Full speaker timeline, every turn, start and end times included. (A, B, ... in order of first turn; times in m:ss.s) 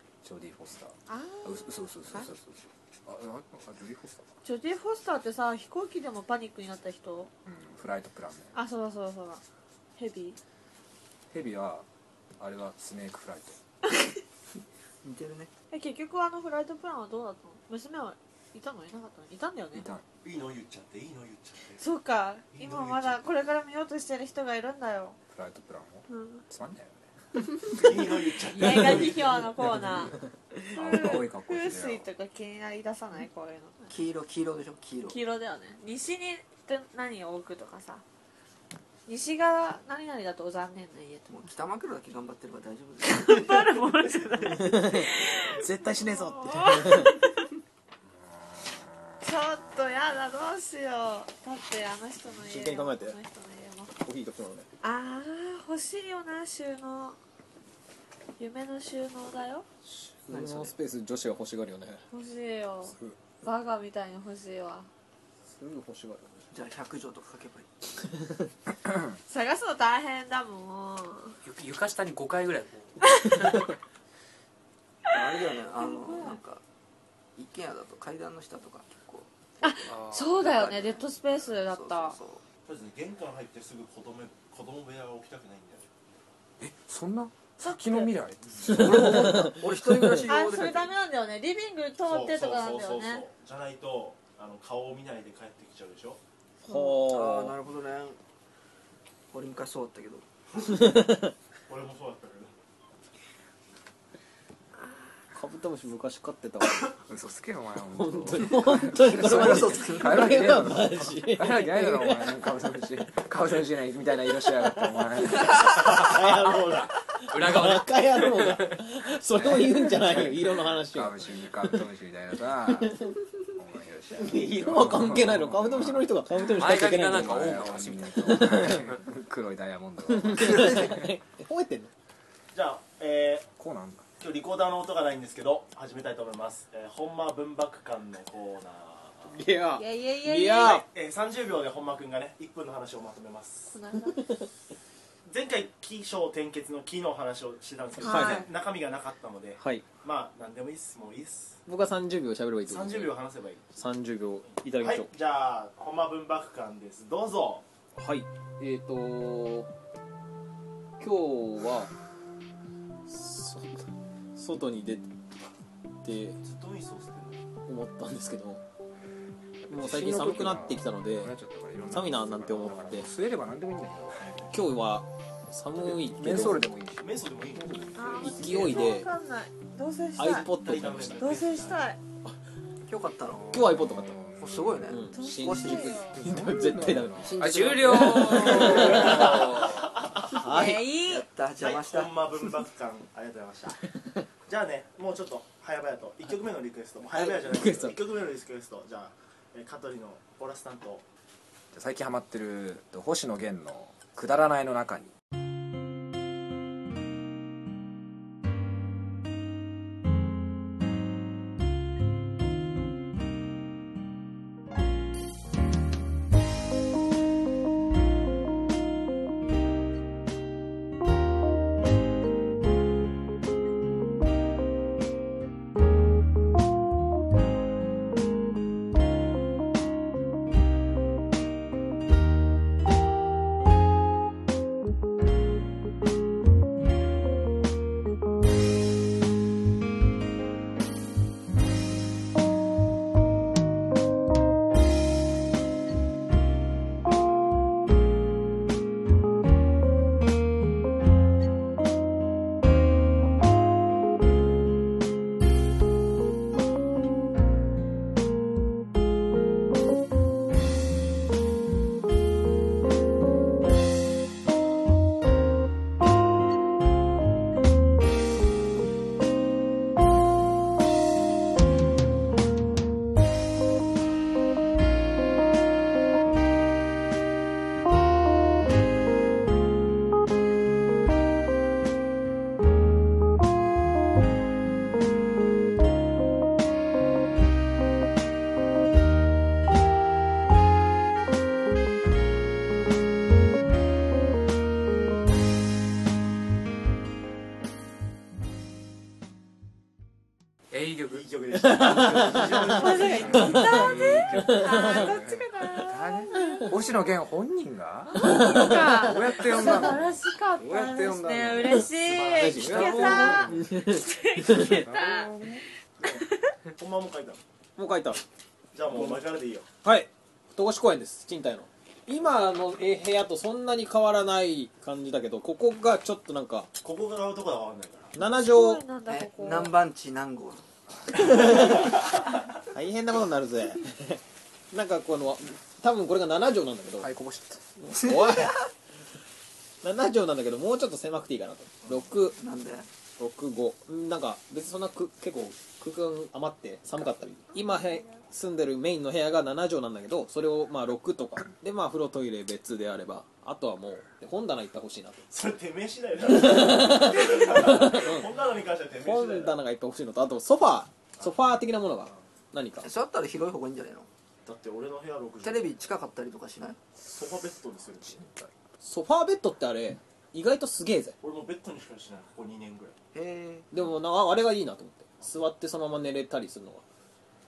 0:00.2-0:04.2 A
0:01.1-0:02.3 B
0:04.4-0:07.3 B
0:07.4-0:08.5 A
0:08.5-0:09.4 B
0:10.0-0:10.4 B
0:11.3-0:11.8 A
0:12.4-0:13.6 A
0:13.9-0:14.2 B
0:15.0-0:15.5 C
0:15.7-0:19.9 B
0:19.7-0:20.0 A
0:20.2-0:21.8 D
0:21.8-0:25.2 B
0:22.5-0:23.2 D
0:25.3-0:27.0 A
0:26.1-0:26.4 B
0:27.7-0:29.5 D
0:28.4-0:33.8 B
0:30.7-0:32.1 A
0:33.9-0:35.2 C
0:35.1-0:38.0 B
0:39.1-0:41.3 B
0:41.3-0:43.5 C
0:43.0-0:47.5 B
0:44.5-0:47.1 E
0:49.2-0:53.9 B
0:52.4-0:53.2 E
0:54.0-0:54.7 E
0:54.8-0:57.2 B
0:58.4-0:59.6 B
0:59.8-1:02.0 E
1:00.3-1:00.7 C
1:02.1-1:04.9 B
1:05.4-1:06.4 E
1:06.5-1:07.7 C
1:09.3-1:11.4 B
1:11.4-1:13.6 F
1:13.0-1:13.4 B
1:15.1-1:16.4 B
1:15.1-1:16.6 C
1:17.4-1:22.4 C
1:19.6-1:22.2 B
1:19.9-1:20.3 F
1:22.6-1:25.9 D
1:26.6-1:29.6 A
1:27.6-1:28.1 B
1:28.7-1:29.5 E
1:28.7-1:30.9 C
1:30.2-1:33.3 B
1:32.0-1:36.2 D
1:36.6-1:37.6 E
1:36.7-1:37.0 B
1:37.0-1:38.2 C
1:39.3-1:40.2 C
1:40.7-1:41.3 E
1:41.7-1:42.5 D
1:45.3-1:46.9 E
1:47.1-1:56.0 A
1:48.0-1:52.2 E
1:49.1-1:50.6 C
1:55.5-1:56.9 D
1:55.6-2:01.8 E
1:57.3-1:58.8 F
1:59.4-2:06.1 A
2:04.2-2:07.5 E
2:06.5-2:09.0 F
2:06.6-2:11.0 A
2:08.3-2:08.8 E
2:10.1-2:11.9 E
2:12.5-2:13.5 D
2:13.6-2:14.0 A
2:14.2-2:19.4 D
2:19.2-2:20.8 E
2:19.7-2:20.8 B
2:20.6-2:23.7 D
2:23.7-2:24.2 B
2:25.3-2:31.6 D
2:28.0-2:28.5 E
2:28.0-2:28.5 B
2:29.6-2:29.8 E
2:31.7-2:33.2 E
2:32.7-2:33.8 D
2:33.8-2:35.1 E
2:34.7-2:37.6 D
2:38.0-2:39.7 E
2:41.0-2:41.9 E
2:43.1-2:45.1 E
2:46.0-2:46.4 E
2:46.4-2:47.4 D
2:47.7-2:48.6 E
2:49.7-2:54.5 A
2:49.7-2:51.3 E
2:51.9-2:53.1 E
2:54.5-2:56.6 E
2:55.8-2:57.1 A
2:57.0-2:58.8 D
2:58.0-3:00.5 B
2:58.2-2:59.1 E
3:00.2-3:01.3 E
3:00.5-3:02.0 D
3:01.2-3:02.0 B
3:02.9-3:03.6 C
3:03.3-3:05.0 A
3:03.5-3:04.2 E
3:04.4-3:06.1 C
3:04.9-3:08.9 E
3:05.1-3:06.1 B
3:06.2-3:09.3 A
3:07.2-3:09.0 C
3:07.4-3:09.8 F
3:08.6-3:10.4 D
3:10.3-3:10.9 E
3:10.4-3:11.3 B
3:11.0-3:12.4 C
3:11.6-3:13.8 D
3:14.5-3:21.0 D
3:17.1-3:18.0 E
3:21.7-3:25.1 A
5:00.7-5:01.2 F
5:01.1-5:03.8 D
5:01.6-5:03.7 E
5:02.8-5:06.7 B
5:03.0-5:11.9 A
5:08.2-5:15.3 B
5:12.1-5:14.8 E
5:12.5-5:13.6 A
5:14.5-5:15.6 A
5:16.0-5:17.4 D
5:16.0-5:16.5 B
5:17.8-5:18.2 E
5:18.7-5:19.6 D
5:18.9-5:19.2 E
5:19.8-5:26.7 E
5:26.8-5:28.2 D
5:28.1-5:28.8 E
5:28.4-5:29.7 B
5:29.1-5:30.6 C
5:31.2-5:31.8 E
5:31.5-5:32.0 D
5:32.7-5:37.1 E
5:37.0-5:37.6 A
5:37.8-5:38.6 E
5:37.9-5:38.7 C
5:39.8-5:42.4 E
5:42.4-5:42.9 C
5:43.2-5:55.2 E
5:55.3-5:59.5 D
5:56.3-5:58.3 E
5:59.0-6:02.9 E
6:02.8-6:04.1 C
6:04.4-6:05.7 D
6:05.4-6:06.8 C
6:07.1-6:08.3 D
6:08.1-6:08.5 A
6:08.8-6:11.2 E
6:11.2-6:12.9 D
6:13.1-6:13.7 C
6:13.7-6:16.8 E